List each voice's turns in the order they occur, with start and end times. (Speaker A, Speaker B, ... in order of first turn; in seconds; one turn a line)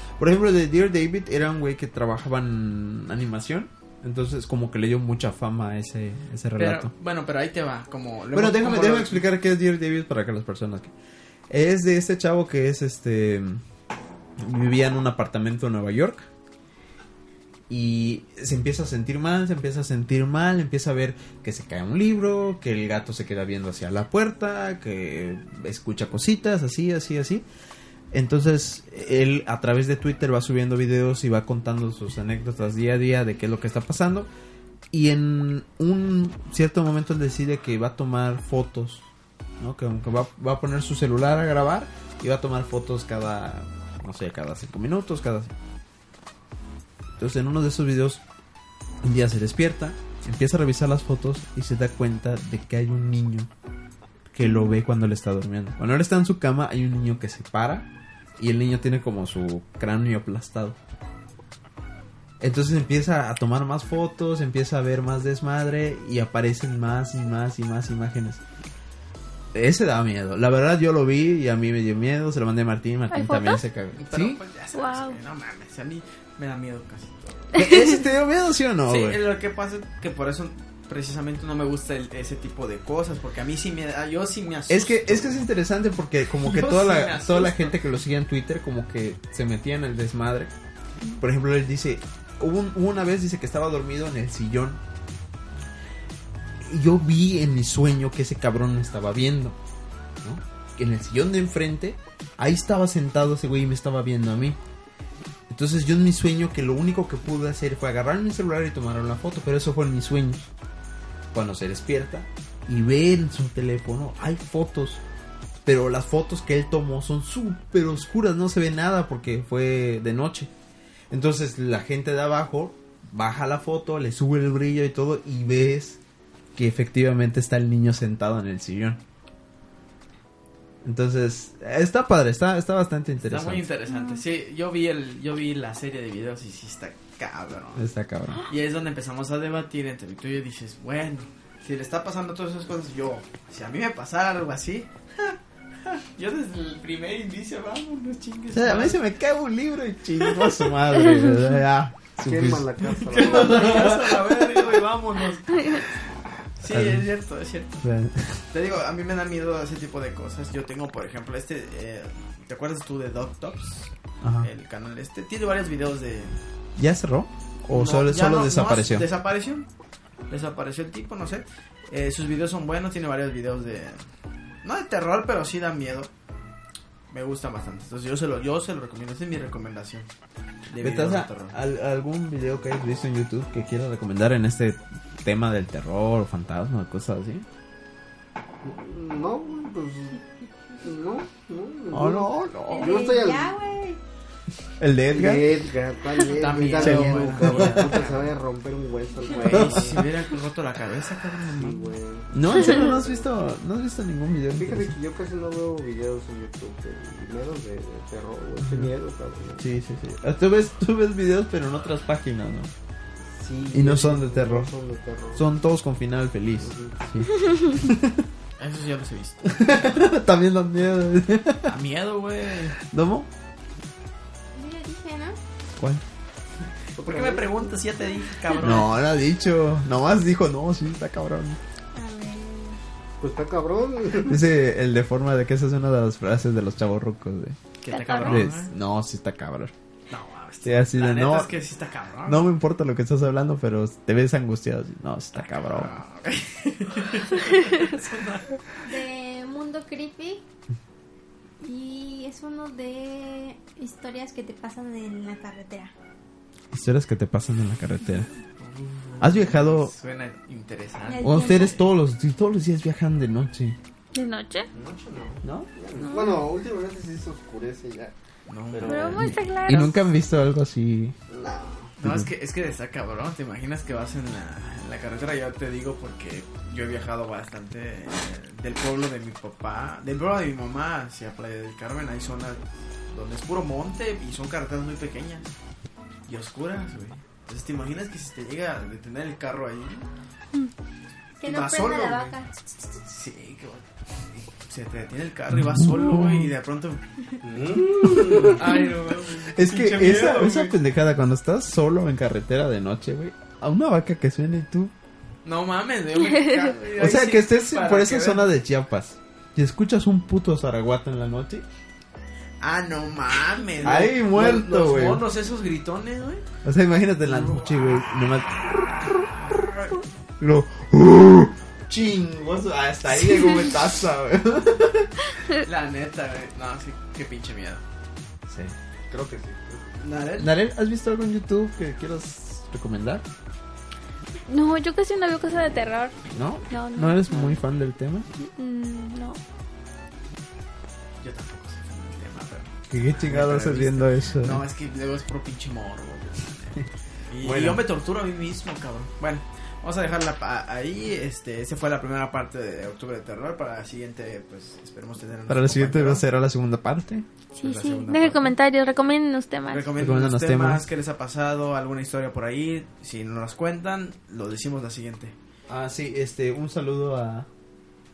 Speaker A: 0.2-6.9
Speaker B: 6.6-9.3
Speaker A: 8.3-10.9
Speaker A: 11.5-13.6
Speaker A: 14.4-16.3
Speaker A: 17.7-27.4
Speaker A: 28.1-34.3
Speaker A: 34.9-39.1
Speaker A: 39.6-45.5
Speaker A: 47.2-48.2
Speaker A: 49.0-53.5
Speaker A: 54.3-60.8
Speaker A: 62.4-68.4
Speaker A: 69.5-74.4
Speaker C: 73.1-73.6
Speaker B: 74.0-77.6
Speaker C: 74.8-75.2
Speaker A: 77.5-79.2
Speaker C: 77.6-77.8
Speaker B: 78.8-85.5
Speaker A: 84.7-90.5
Speaker B: 86.3-87.8
Speaker A: 91.2-94.8
Speaker A: 96.6-99.6
Speaker A: 100.2-104.6
Speaker A: 105.5-110.5
Speaker A: 111.3-115.0
Speaker A: 115.6-120.5
Speaker A: 121.1-126.0
Speaker A: 126.5-129.0
Speaker A: 130.8-133.6
Speaker B: 133.2-137.9
Speaker C: 133.9-134.2
Speaker A: 137.8-138.4
Speaker B: 138.5-149.0
Speaker A: 148.5-154.2
Speaker D: 152.2-153.9
Speaker B: 153.0-155.9
Speaker B: 156.6-157.8
Speaker A: 156.7-157.1
Speaker A: 157.8-158.4
Speaker B: 158.5-166.4
Speaker A: 164.2-164.5
Speaker A: 166.8-169.1
Speaker B: 167.7-169.7
Speaker B: 170.3-174.1
Speaker B: 174.6-176.1
Speaker B: 177.1-180.1
Speaker B: 180.7-181.6
Speaker A: 180.7-187.4
Speaker D: 188.6-190.2
Speaker D: 190.8-193.6
Speaker A: 191.9-193.1
Speaker E: 192.7-194.0
Speaker A: 194.8-195.6
Speaker D: 195.1-200.0
Speaker B: 196.3-198.3
Speaker A: 196.8-198.0
Speaker B: 199.3-201.9
Speaker A: 199.4-200.1
Speaker D: 201.6-203.3
Speaker A: 202.3-204.9
Speaker D: 204.6-209.6
Speaker A: 208.6-208.9
Speaker A: 209.6-212.7
Speaker D: 213.3-215.4
Speaker A: 213.7-214.7
Speaker A: 215.3-218.3
Speaker D: 216.6-216.9
Speaker B: 218.6-219.7
Speaker A: 219.4-221.7
Speaker B: 221.7-222.8
Speaker A: 222.8-223.3
Speaker E: 224.5-225.4
Speaker A: 225.8-226.0
Speaker B: 227.0-228.9
Speaker D: 227.0-227.8
Speaker A: 228.6-231.6
Speaker E: 231.9-232.8
Speaker D: 233.2-234.4
Speaker A: 234.2-237.6
Speaker B: 237.8-238.7
Speaker C: 237.9-238.5
Speaker A: 238.2-239.7
Speaker B: 240.1-242.5
Speaker A: 240.6-241.5
Speaker A: 242.2-245.9
Speaker B: 245.3-248.6
Speaker E: 248.8-250.4
Speaker E: 251.6-255.9
Speaker A: 256.7-258.3
Speaker B: 258.6-261.8
Speaker A: 259.2-259.9
Speaker E: 261.1-261.8
Speaker A: 261.2-263.8
Speaker C: 264.1-264.7
Speaker D: 264.7-268.1
Speaker A: 265.4-265.7
Speaker C: 266.0-266.4
Speaker B: 268.5-269.3
Speaker D: 268.7-269.3
Speaker C: 268.8-270.0
Speaker A: 269.2-271.1
Speaker D: 271.3-271.9
Speaker B: 272.0-285.5
Speaker A: 272.0-272.3
Speaker B: 286.3-290.1
Speaker E: 291.4-292.5
Speaker B: 291.4-292.4
Speaker B: 293.0-297.1
Speaker A: 295.5-296.5
Speaker D: 297.4-298.7
Speaker A: 298.0-298.7
Speaker B: 298.4-300.7
Speaker A: 299.3-304.9
Speaker B: 305.4-308.5
Speaker A: 307.0-311.6
Speaker B: 312.6-316.4
Speaker A: 313.8-315.2
Speaker A: 316.6-318.5
Speaker B: 317.2-318.0
Speaker A: 320.4-325.3
Speaker B: 325.6-327.8
Speaker A: 328.5-328.7
Speaker D: 329.1-329.9
Speaker B: 330.0-330.5
Speaker A: 330.4-333.2
Speaker C: 334.5-336.1
Speaker A: 336.3-338.3
Speaker C: 336.7-337.6
Speaker C: 338.4-339.4
Speaker B: 341.2-356.2
Speaker A: 342.9-344.6
Speaker A: 347.4-347.8
Speaker A: 355.5-357.2
Speaker C: 357.5-359.9
Speaker B: 357.6-358.6
Speaker B: 359.7-365.3
Speaker A: 359.9-360.9
Speaker A: 365.7-367.5